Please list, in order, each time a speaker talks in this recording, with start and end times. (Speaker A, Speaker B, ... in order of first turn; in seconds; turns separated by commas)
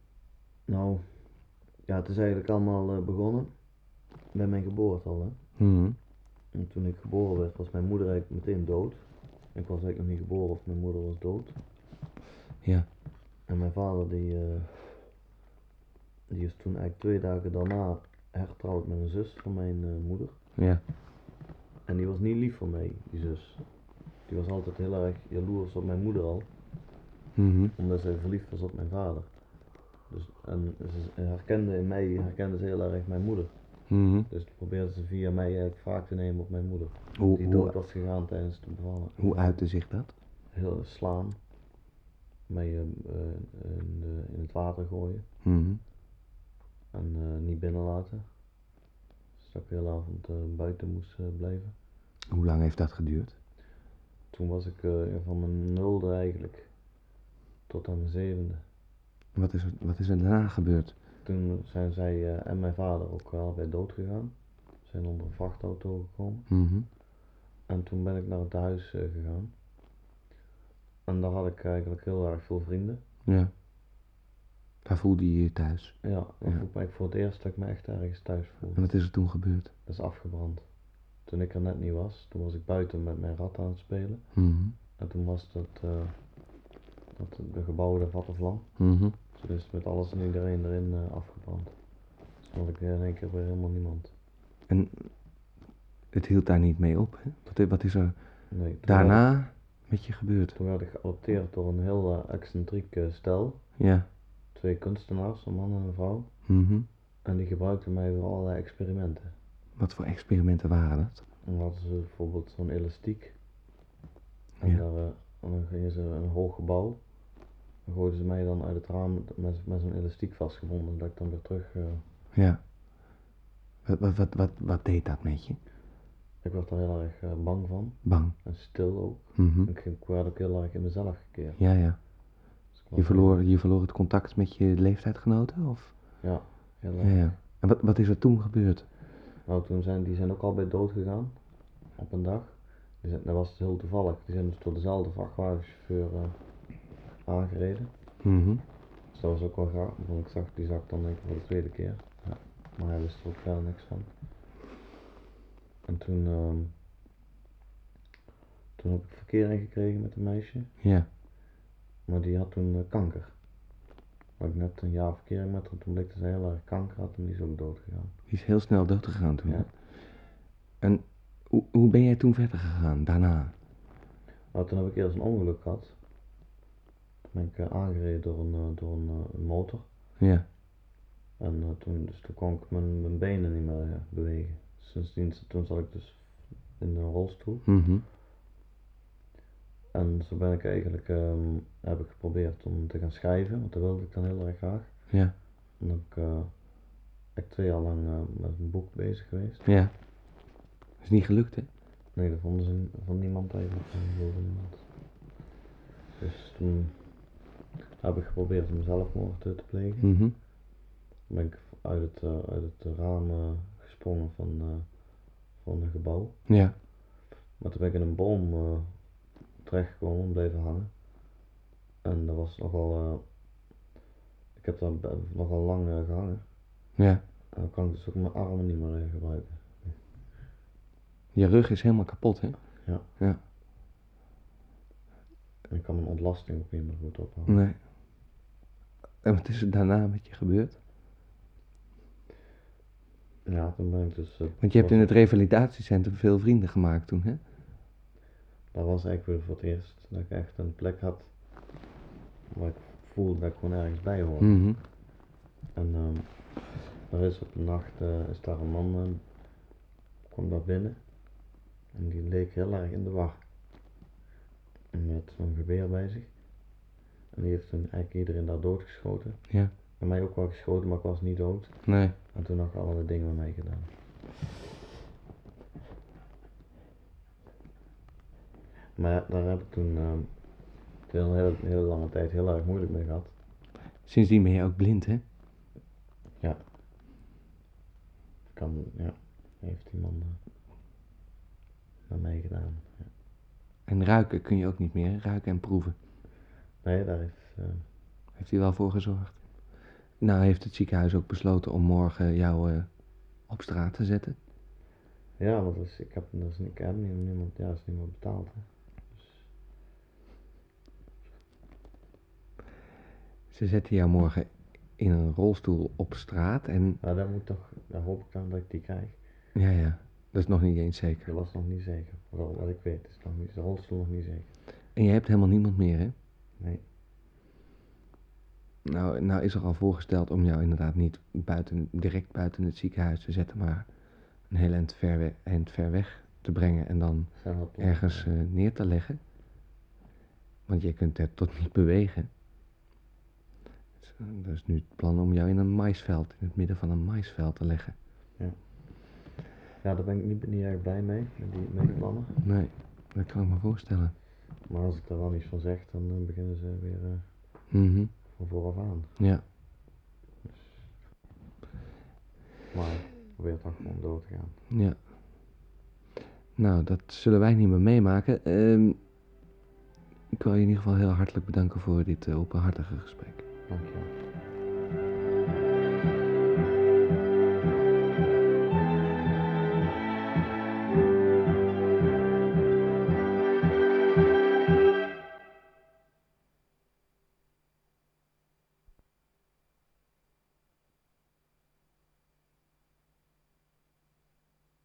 Speaker A: 0.7-5.5, Speaker B: 5.5-6.0, Speaker A: 6.5-11.6, Speaker B: 12.6-12.9, Speaker A: 13.4-15.1, Speaker A: 16.3-20.4, Speaker B: 20.5-20.8, Speaker A: 21.8-26.8, Speaker B: 27.3-27.7, Speaker A: 27.8-39.9, Speaker B: 33.9-34.3, Speaker B: 37.1-37.8, Speaker B: 39.2-40.1, Speaker A: 40.5-41.5, Speaker A: 42.5-45.3, Speaker B: 45.4-45.8, Speaker A: 46.9-48.5, Speaker A: 49.3-51.8, Speaker B: 52.3-53.4, Speaker A: 54.3-57.1, Speaker A: 57.7-58.7, Speaker B: 59.3-61.0, Speaker A: 61.2-66.5, Speaker B: 66.5-66.9, Speaker A: 67.7-69.5, Speaker A: 71.0-73.0, Speaker B: 73.2-73.5, Speaker B: 74.8-76.6, Speaker A: 76.0-94.1, Speaker B: 78.7-79.7, Speaker B: 84.3-84.8, Speaker B: 88.8-89.2, Speaker B: 94.7-95.5, Speaker B: 96.1-100.6, Speaker A: 98.5-99.8, Speaker A: 100.5-109.3, Speaker B: 103.8-104.1, Speaker B: 106.4-106.9, Speaker B: 109.8-111.2, Speaker A: 111.4-113.4, Speaker A: 114.6-122.1, Speaker B: 122.3-122.6, Speaker B: 123.8-125.6, Speaker A: 126.4-133.4, Speaker B: 128.0-128.4, Speaker B: 129.3-129.7, Speaker B: 131.6-136.4, Speaker A: 136.2-137.4, Speaker B: 137.0-138.9, Speaker A: 139.4-148.4, Speaker B: 148.2-148.6, Speaker A: 149.1-154.2, Speaker A: 155.8-156.8, Speaker A: 158.8-160.7, Speaker B: 160.8-161.1, Speaker A: 162.0-163.8, Speaker A: 164.4-168.2, Speaker B: 168.3-173.6, Speaker A: 169.4-169.7, Speaker A: 174.5-176.0, Speaker A: 177.3-180.0, Speaker B: 180.2-180.5, Speaker A: 181.4-187.7, Speaker B: 187.7-188.0, Speaker A: 189.9-199.8, Speaker B: 195.1-195.4, Speaker B: 199.6-199.9, Speaker B: 201.0-201.7, Speaker A: 202.1-205.2, Speaker A: 206.2-221.4, Speaker B: 210.0-210.4, Speaker B: 216.4-216.8, Speaker A: 222.0-223.7, Speaker A: 224.5-226.9, Speaker B: 226.9-227.2, Speaker A: 227.5-230.0, Speaker B: 231.3-233.4, Speaker A: 232.8-233.2, Speaker A: 235.7-237.6, Speaker B: 237.5-237.8, Speaker B: 239.2-240.8, Speaker A: 243.4-245.2, Speaker B: 244.6-247.4, Speaker A: 248.7-251.9, Speaker A: 252.5-254.9, Speaker B: 254.4-254.8, Speaker A: 255.7-259.7, Speaker A: 260.3-263.5, Speaker A: 264.9-266.8, Speaker A: 267.3-274.0, Speaker B: 269.5-269.7, Speaker B: 271.8-272.2, Speaker A: 278.9-283.4, Speaker B: 283.9-285.2, Speaker A: 288.5-290.4, Speaker A: 292.1-293.1, Speaker B: 293.9-296.0, Speaker A: 296.8-297.9, Speaker B: 298.3-304.4, Speaker A: 305.4-309.5, Speaker B: 313.5-317.0, Speaker A: 317.0-319.4, Speaker B: 319.5-321.3, Speaker A: 321.2-324.6, Speaker B: 324.9-326.1, Speaker A: 326.6-326.8, Speaker B: 328.8-339.2, Speaker A: 337.3-338.3, Speaker B: 340.7-342.3, Speaker B: 344.0-348.0, Speaker A: 348.4-349.1, Speaker A: 349.8-352.6, Speaker B: 352.4-354.1, Speaker A: 354.6-357.7, Speaker B: 357.7-358.1, Speaker A: 358.2-359.1, Speaker B: 359.2-359.5, Speaker A: 360.4-360.9, Speaker A: 362.7-364.6, Speaker B: 364.7-365.1, Speaker B: 366.6-369.1, Speaker B: 370.3-373.4, Speaker A: 373.7-374.1